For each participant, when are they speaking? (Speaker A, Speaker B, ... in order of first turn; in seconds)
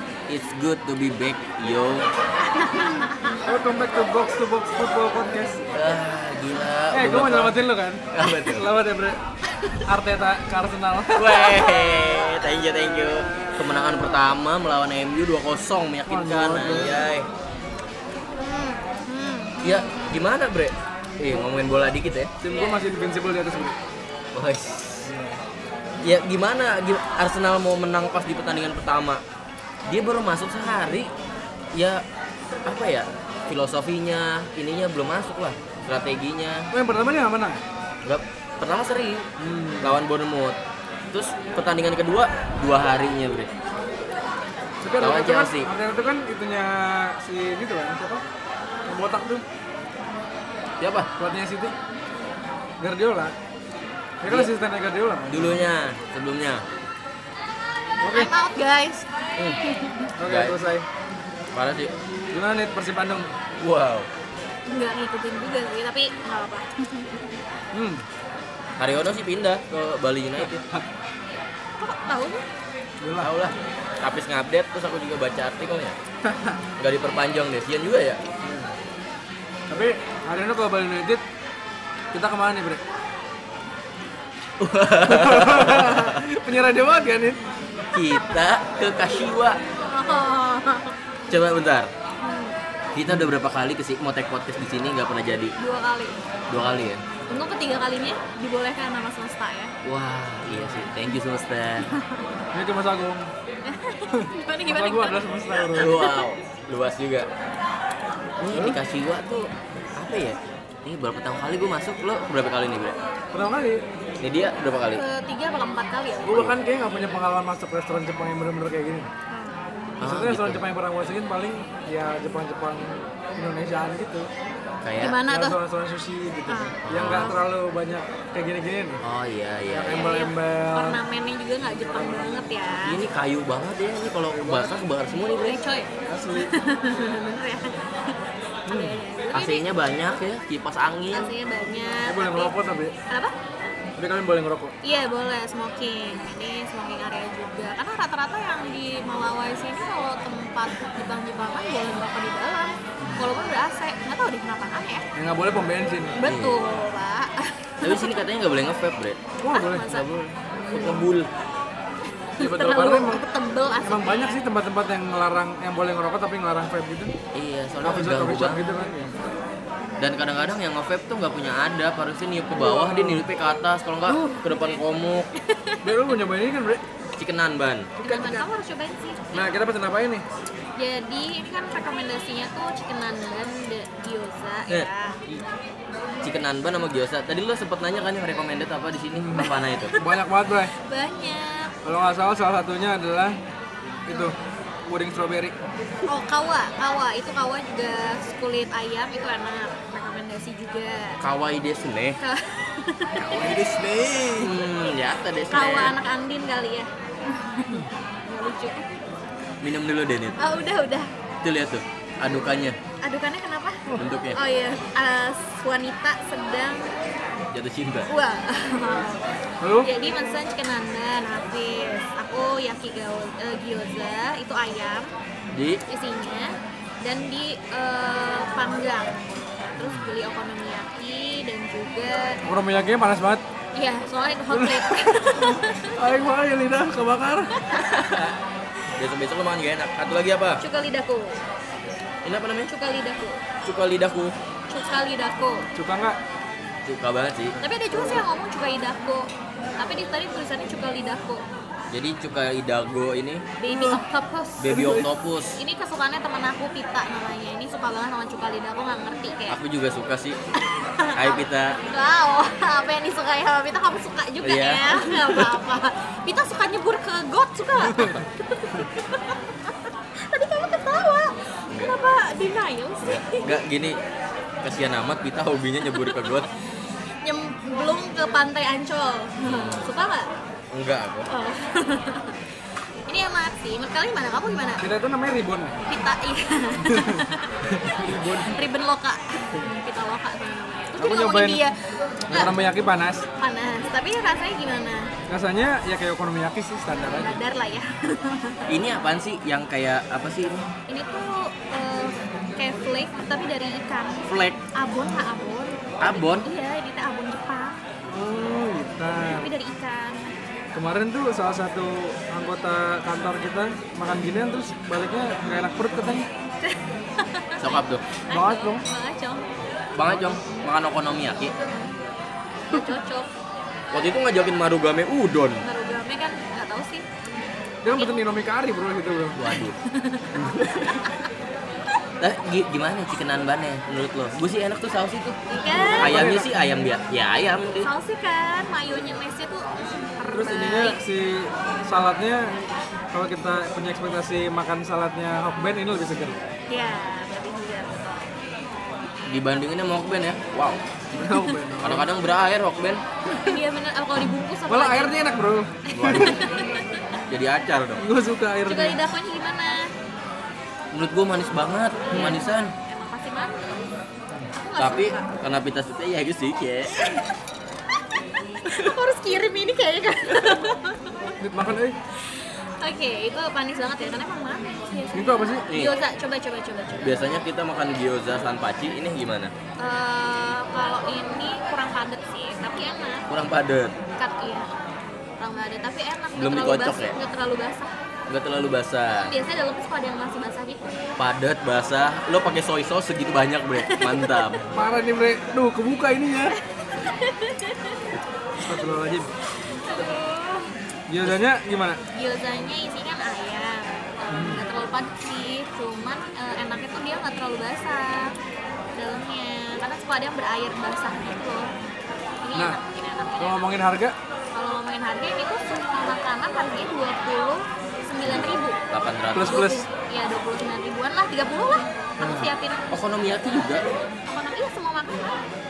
Speaker A: 0.3-2.1, 5.7-7.6, 8.1-8.7, 11.1-17.3, 19.6-22.3, 24.3-25.1, 26.0-29.2, 29.9-31.1, 31.7-32.0, 32.6-36.7, 38.0-39.3, 39.8-40.6, 41.1-43.5, 45.0-45.7, 50.8-51.1, 54.2-54.5, 55.3-56.6, 60.2-60.6, 61.5-61.9, 63.6-64.1, 68.8-70.6, 73.2-76.0, 76.8-78.2, 84.6-86.2, 87.9-89.6, 91.3-91.9, 92.9-95.5, 96.5-97.0, 99.8-101.9, 105.8-107.3, 108.4-113.0, 114.2-115.0, 116.3-116.5, 120.0-120.6, 124.8-125.2, 126.9-127.3, 129.0-130.0, 132.8-135.6, 139.3-141.3, 156.2-156.6, 157.8-159.2, 160.7-161.3, 167.3-168.6, 170.0-175.3, 177.2-178.1, 184.7-185.4, 186.2-189.9, 201.2-202.2, 204.3-205.9, 209.6-210.4, 211.4-212.8, 214.0-214.4, 217.5-218.1, 225.5-225.8, 237.9-238.4, 238.9-240.6, 242.2-242.7, 243.6-244.4, 246.8-248.2, 251.9-253.4, 254.6-255.6, 259.5-260.4, 261.1-261.8, 264.4-265.6, 273.0-274.0, 274.6-276.5, 279.4-279.9, 280.7-281.3, 298.7-300.7, 304.3-304.6, 306.0-306.4, 317.6-318.0, 319.9-321.5, 323.9-325.6, 329.4-329.8, 330.4-331.0, 332.2-335.4, 336.0-337.9, 349.3-350.8, 351.8-353.0, 355.9-356.5, 357.3-358.0, 360.9-362.7, 364.8-367.1, 375.7-375.9, 377.0-379.5, 383.3-384.0, 386.4-387.1, 388.3-389.3, 391.2-394.7, 418.2-419.7, 422.9-423.8
Speaker B: 2.6-3.3, 18.4-20.1, 22.5-22.8, 58.1-60.1, 64.7-67.2, 71.8-72.4, 89.9-90.9, 92.2-92.6, 95.6-96.2, 97.3-99.7, 103.6-106.2, 114.9-116.4, 119.3-119.8, 125.0-125.6, 126.5-127.4, 129.9-133.0, 135.4-139.7, 141.1-142.5, 143.1-143.3, 144.8-155.0, 156.2-158.2, 159.4-161.0, 162.3-164.4, 175.4-175.9, 178.0-179.5, 180.8-185.2, 189.4-190.1, 190.8-191.7, 196.1-201.2, 202.2-203.4, 205.5-208.8, 210.4-211.1, 213.0-216.9, 218.1-225.1, 225.9-229.2, 229.7-232.4, 233.7-236.0, 237.6-238.2, 240.6-241.4, 242.7-243.4, 244.7-245.7, 247.6-251.4, 253.6-254.9, 255.6-259.6, 260.6-273.6, 277.2-280.3, 281.3-282.4, 283.1-284.8, 285.9-291.8, 293.4-295.1, 297.1-298.6, 300.9-307.8, 309.2-310.3, 316.6-319.5, 321.6-321.9, 322.7-323.3, 325.6-327.1, 329.9-331.3, 335.5-336.3, 337.8-341.0, 346.7-348.3, 351.1-351.5, 353.4-355.3, 355.9-357.1, 358.6-359.9, 362.1-363.9, 364.6-365.2, 368.6-371.3, 372.2-377.1, 379.8-383.3, 384.2-384.7, 385.4-387.9, 389.2-391.1, 393.8-394.5, 396.8-398.0, 399.7-400.7, 402.1-408.3, 408.9-411.7, 412.4-413.7, 414.5-418.8, 419.4-422.9, 424.2-425.4
Speaker C: 3.4-5.7, 6.9-9.2, 9.8-11.6, 16.1-17.1, 22.4-23.7, 25.0-25.4, 36.7-37.6, 39.4-40.0, 44.8-48.2, 48.9-49.4, 51.2-51.7, 52.8-53.3, 54.2-55.6, 58.0-58.3, 60.2-60.9, 62.3-63.3, 67.7-68.0, 73.0-73.3, 76.2-76.6, 78.4-78.7, 79.7-81.2, 82.1-82.8, 85.0-87.4, 93.1-93.3, 102.5-103.3, 104.1-106.0, 108.5-108.8, 113.3-113.8, 116.2-119.1, 120.0-124.3, 125.2-129.0, 129.7-131.0, 131.8-132.4, 134.3-134.8, 136.1-136.5, 138.7-139.0, 142.1-142.9, 144.0-144.7, 153.0-153.3, 155.1-156.2, 159.4-160.4, 162.4-163.2, 163.8-167.2, 167.8-169.1, 172.5-173.3, 174.1-174.4, 175.8-176.8, 178.1-178.3, 179.3-180.2, 189.2-190.7, 191.8-193.4, 194.1-194.3, 194.9-195.5, 203.2-204.5, 219.6-219.9, 229.8-230.1, 232.4-233.4, 234.5-237.9, 245.7-246.2, 253.7-254.0, 254.7-255.0, 284.8-285.8, 286.8-288.6, 291.0-291.6, 292.3-293.2, 295.3-297.4, 308.1-309.5, 310.7-316.3, 318.3-318.8, 327.8-329.4, 335.7-336.5, 340.3-342.5, 343.1-346.4, 351.1-352.1, 354.7-356.4, 358.0-359.0, 371.4-372.0, 375.1-375.7, 394.7-396.6, 398.6-399.3, 401.1-402.0, 404.3-404.6, 413.4-414.1, 419.3-419.9, 422.2-422.5